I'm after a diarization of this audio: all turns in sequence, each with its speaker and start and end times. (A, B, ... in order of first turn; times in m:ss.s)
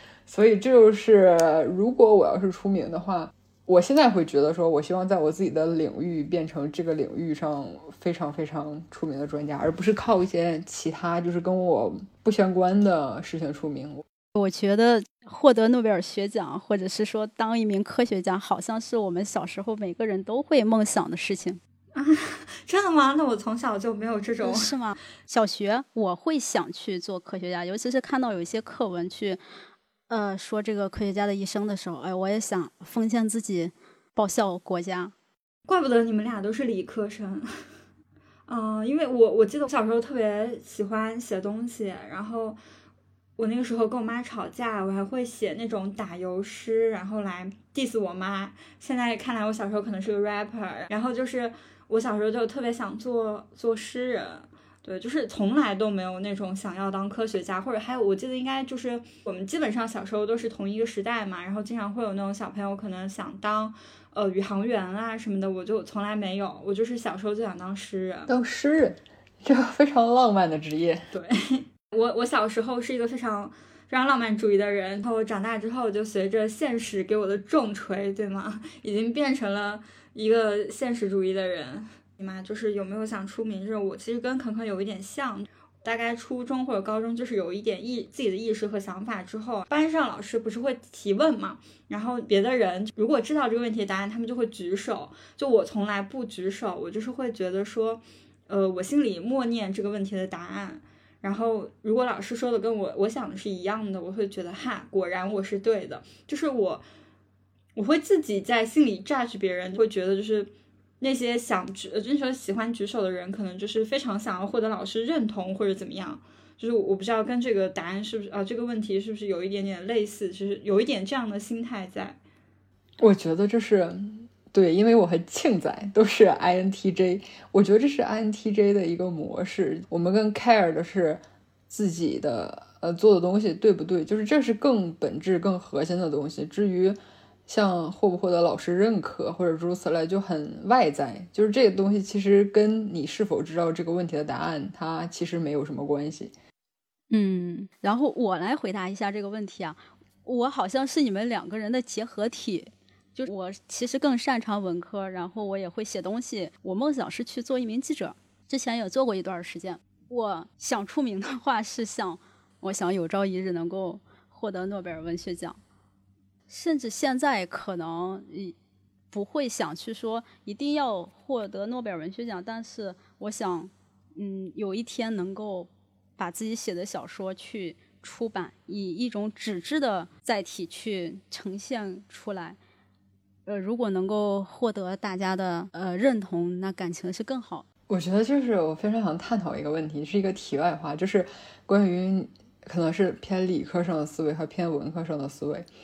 0:00.3-0:14.0 A
0:14.4-0:21.6 B
0:21.9-0:24.7 C
0:24.4-0:29.4 B
0:30.1-0:35.1 B
0:35.7-0:37.5 C
0:38.5-0:42.6 C
0:43.4-1:08.3 C
1:08.3-1:11.0 A
1:11.1-1:46.8 C
1:47.8-2:02.2 C
2:03.0-2:26.3 A
2:27.1-2:45.6 B
2:46.5-2:48.6 B
2:49.1-3:02.6 B
3:03.5-3:07.7 B
3:07.9-3:15.7 A